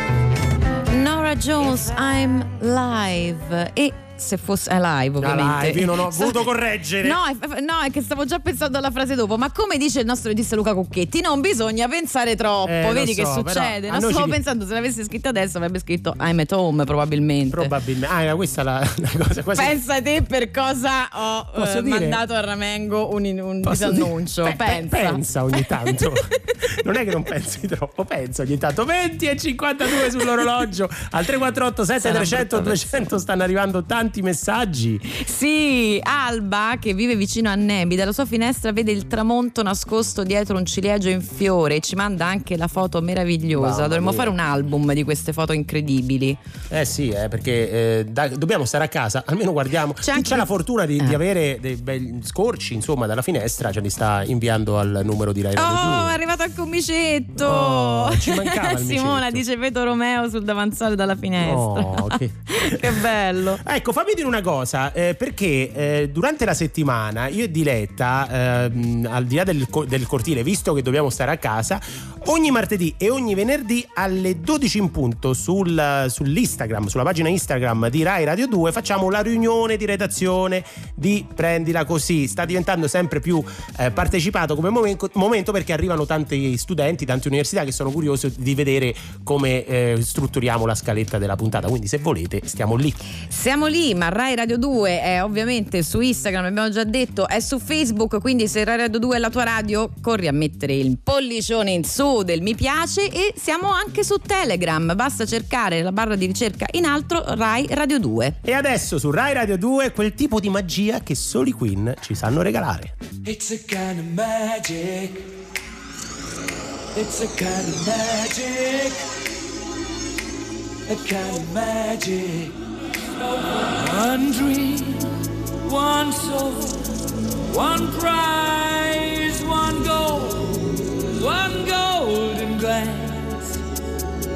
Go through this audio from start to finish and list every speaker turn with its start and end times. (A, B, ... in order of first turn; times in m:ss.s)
0:00.9-0:06.4 A
0:05.2-0:07.2 B
0:07.0-0:17.7 A
0:12.6-0:14.4 B
0:17.5-0:19.8 B
0:19.6-0:25.2 A
0:21.6-0:22.2 B
0:23.6-0:35.0 B
0:32.0-0:32.8 A
0:35.2-0:46.4 A
0:43.6-0:44.3 B
0:46.7-0:56.2 B
0:50.0-0:50.5 A
0:55.6-1:03.6 A
0:57.4-0:59.4 B
1:01.4-1:03.1 B
1:03.6-1:33.0 B
1:33.3-1:48.4 A
1:48.4-1:52.9 B
1:53.2-1:55.3 C
1:56.9-1:59.0 C
2:00.9-2:02.6 C
2:03.2-2:05.1 C
2:05.6-2:06.9 C
2:07.5-2:13.6 C